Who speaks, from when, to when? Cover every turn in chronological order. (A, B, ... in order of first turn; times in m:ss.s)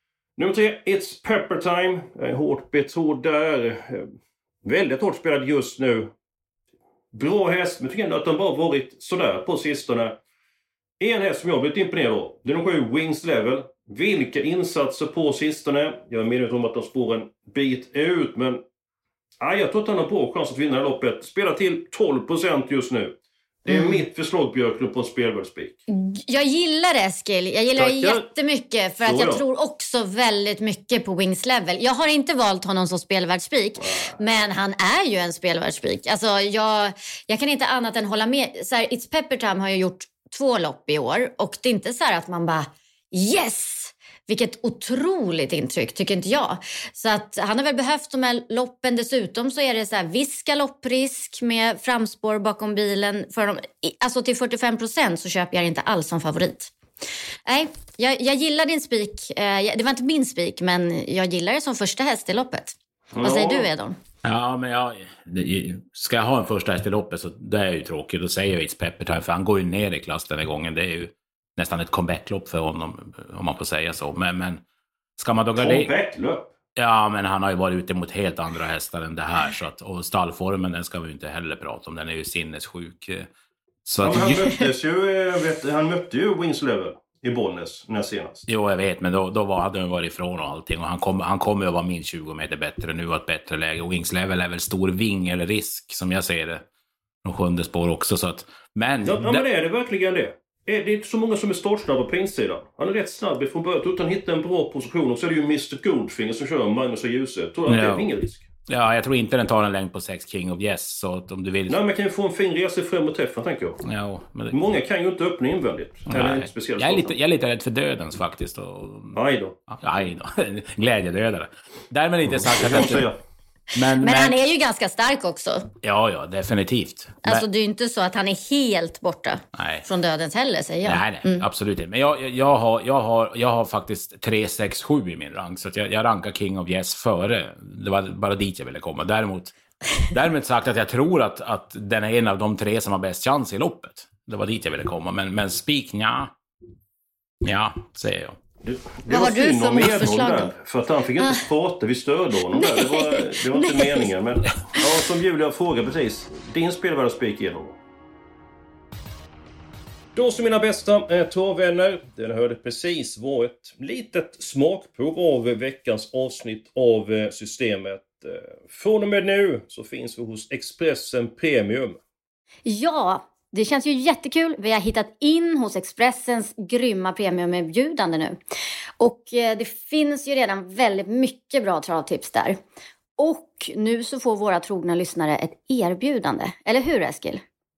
0:00.4-0:04.1 A
0:04.6-0:06.1 A
0:07.1-0:10.2 A
0:11.0-0:18.6 A
0:19.4-0:25.8 A
0:23.7-0:24.0 B
0:25.9-0:56.7 B
0:27.8-0:28.3 A
0:29.0-0:29.4 A
0:57.5-1:04.0 B
1:03.1-1:03.7 A
1:04.2-1:14.6 C
1:15.2-1:15.9 C
1:15.6-1:16.5 A
1:16.8-1:23.3 C
1:23.9-1:24.5 C
1:24.0-1:28.5 A
1:28.5-1:36.6 C
1:37.2-1:39.4 C
1:39.0-1:48.5 A
1:47.7-1:48.1 C
1:48.7-1:51.8 C
1:51.7-1:53.8 A
1:53.8-1:54.6 C
1:54.5-1:57.2 A
1:56.1-1:59.2 C
1:59.1-1:59.6 A
1:59.7-2:03.1 C
2:02.3-2:03.2 A
2:03.8-2:04.4 C
2:03.8-2:05.7 B
2:05.8-2:07.4 C
2:07.2-2:11.4 B
2:09.6-2:09.8 C
2:10.8-2:26.3 C
2:27.4-2:28.4 C
2:28.6-2:37.8 A
2:29.1-2:30.5 B
2:32.5-2:34.1 B
2:40.2-2:52.0 A
2:52.7-2:58.4 B
2:59.0-3:02.5 B
3:03.2-3:07.4 B